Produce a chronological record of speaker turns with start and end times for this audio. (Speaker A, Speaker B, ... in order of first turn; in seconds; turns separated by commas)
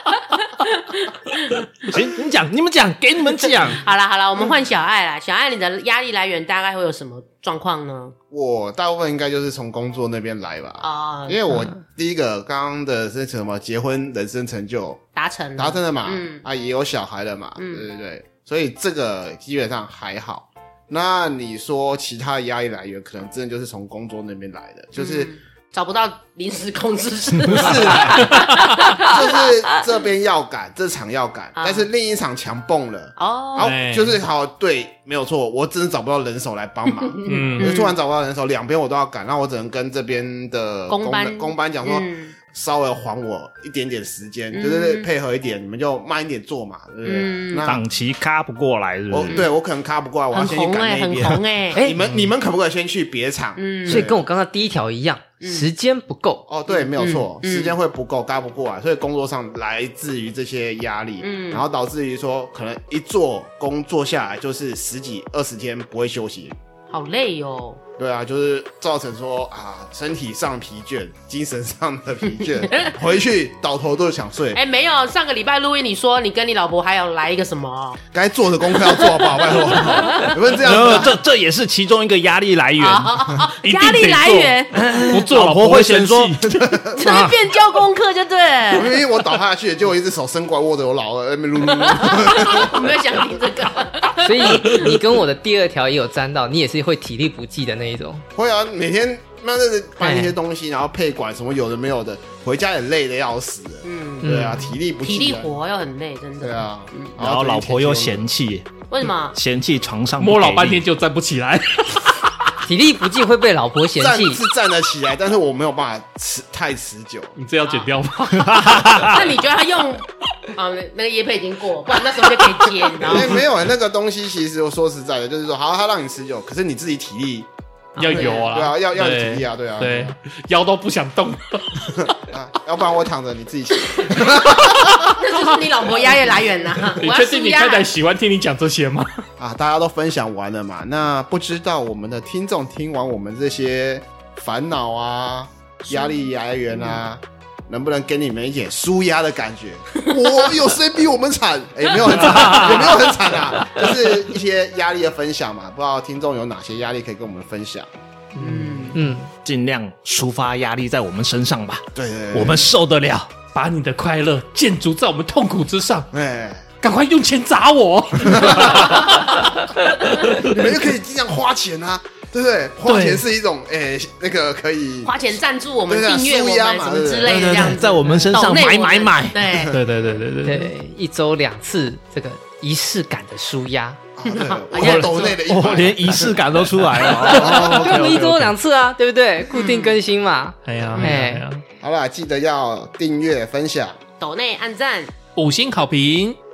Speaker A: 0.6-2.0, Speaker B: 1.9-3.8, Speaker A: 3.7-8.1, Speaker C: 8.3-15.0, Speaker A: 10.8-11.7, Speaker A: 15.1-16.4, Speaker C: 15.6-25.3, Speaker A: 17.6-17.8, Speaker A: 25.0-29.5, Speaker C: 27.4-47.8, Speaker A: 31.6-31.9, Speaker A: 33.2-33.7, Speaker D: 33.6-34.2, Speaker A: 37.0-37.9, Speaker D: 37.3-37.7, Speaker A: 40.9-42.3, Speaker A: 44.5-45.1, Speaker A: 47.0-47.7, Speaker B: 47.6-49.4, Speaker C: 49.1-54.2, Speaker A: 50.3-51.8, Speaker A: 53.6-54.1, Speaker E: 53.9-56.5, Speaker A: 55.4-55.7, Speaker C: 56.5-66.6, Speaker A: 56.7-57.7, Speaker A: 61.2-61.6, Speaker A: 66.9-67.8, Speaker C: 68.0-74.6, Speaker A: 72.6-72.9, Speaker A: 74.5-78.0, Speaker C: 78.1-81.1, Speaker A: 78.8-80.4, Speaker B: 80.6-83.1, Speaker A: 82.8-84.7, Speaker D: 83.6-86.6, Speaker B: 84.7-87.3, Speaker C: 86.5-87.0, Speaker A: 86.9-89.0, Speaker C: 88.7-92.9, Speaker A: 91.7-94.9, Speaker E: 94.2-98.2, Speaker C: 98.3-105.5, Speaker E: 100.0-100.3, Speaker A: 103.8-107.1, Speaker E: 104.2-104.7, Speaker C: 106.4-108.3, Speaker B: 107.2-108.7, Speaker A: 108.9-109.3, Speaker B: 109.3-110.8, Speaker D: 110.2-112.2, Speaker E: 112.6-114.4, Speaker C: 114.0-117.3, Speaker D: 117.3-119.3, Speaker B: 118.4-119.2, Speaker A: 119.0-123.4, Speaker C: 123.0-127.5, Speaker A: 128.0-128.5, Speaker D: 128.0-132.1, Speaker C: 128.0-130.2, Speaker C: 131.9-135.2, Speaker A: 133.9-137.9, Speaker D: 136.8-139.2, Speaker C: 139.4-157.9, Speaker A: 145.9-146.2, Speaker D: 158.3-158.9, Speaker A: 158.4-159.0, Speaker E: 158.9-159.3, Speaker B: 159.4-163.3, Speaker C: 161.9-162.7, Speaker D: 163.5-166.1, Speaker C: 166.1-166.6, Speaker D: 166.8-169.7, Speaker C: 168.2-169.1, Speaker C: 170.4-175.1, Speaker D: 172.9-173.2, Speaker A: 175.0-179.8, Speaker C: 175.9-177.7, Speaker B: 177.2-179.7, Speaker C: 179.5-179.9, Speaker D: 179.7-180.7, Speaker E: 180.4-184.1, Speaker C: 184.2-186.4, Speaker A: 184.2-185.4, Speaker B: 184.7-188.5, Speaker C: 186.9-187.9, Speaker E: 187.3-191.5, Speaker A: 189.5-190.0, Speaker D: 190.6-191.6, Speaker C: 191.8-194.0, Speaker A: 194.2-195.1, Speaker D: 195.3-196.4